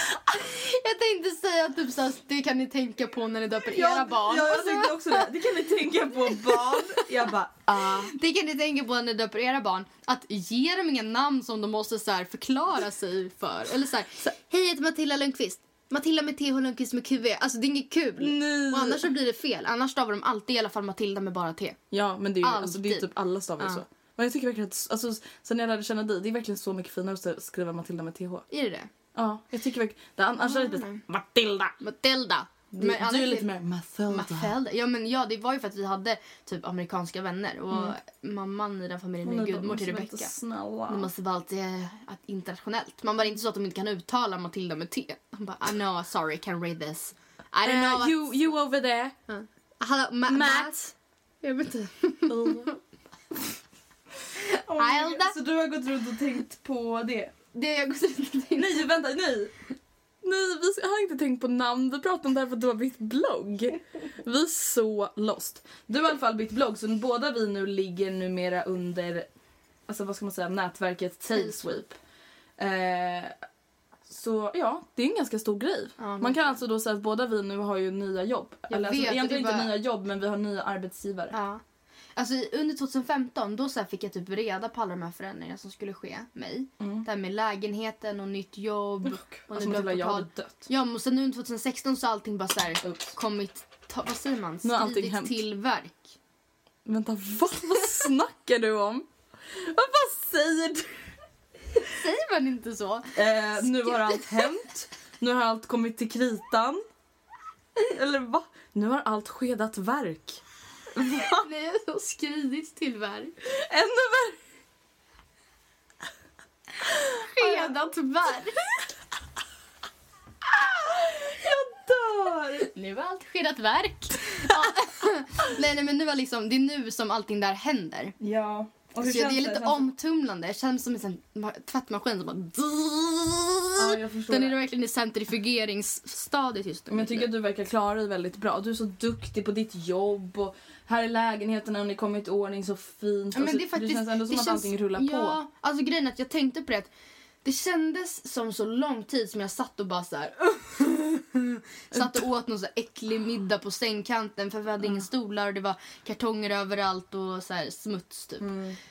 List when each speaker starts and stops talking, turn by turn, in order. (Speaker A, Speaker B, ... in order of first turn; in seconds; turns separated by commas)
Speaker A: 0.3-5.3, Speaker B: 3.7-8.1, Speaker A: 6.3-7.0, Speaker A: 7.7-21.8, Speaker B: 18.2-19.1, Speaker B: 21.9-28.5, Speaker A: 22.4-23.1, Speaker A: 28.5-28.9, Speaker B: 29.1-31.8, Speaker A: 30.4-31.0, Speaker A: 31.8-33.5, Speaker B: 32.7-34.5, Speaker A: 34.1-40.3, Speaker B: 39.2-41.1, Speaker A: 40.9-48.4, Speaker B: 47.6-49.2, Speaker A: 49.3-50.9, Speaker B: 50.3-50.9, Speaker A: 51.4-52.8, Speaker B: 52.3-52.8, Speaker B: 54.3-57.3, Speaker A: 54.8-55.4, Speaker A: 57.5-58.9, Speaker B: 58.6-59.5, Speaker B: 60.2-69.3, Speaker B: 69.9-72.0, Speaker A: 71.3-71.8, Speaker B: 72.6-73.3, Speaker B: 74.1-81.3, Speaker A: 76.0-76.6, Speaker A: 78.7-79.7, Speaker A: 81.3-81.6, Speaker A: 82.2-96.1, Speaker B: 86.8-87.1, Speaker B: 89.0-90.7, Speaker B: 92.8-93.1, Speaker B: 94.6-95.4, Speaker B: 96.9-100.9, Speaker A: 101.9-104.4, Speaker B: 103.2-106.8, Speaker B: 107.8-110.4, Speaker B: 111.0-111.5, Speaker A: 111.2-113.3, Speaker B: 113.5-114.4, Speaker B: 117.0-117.8, Speaker A: 117.3-118.6, Speaker B: 120.6-122.7, Speaker A: 122.7-128.2, Speaker B: 128.2-129.9, Speaker A: 129.0-137.3, Speaker B: 133.8-134.6, Speaker B: 136.9-145.4, Speaker A: 143.3-146.9, Speaker A: 147.4-158.5, Speaker B: 151.9-152.2, Speaker B: 158.4-158.8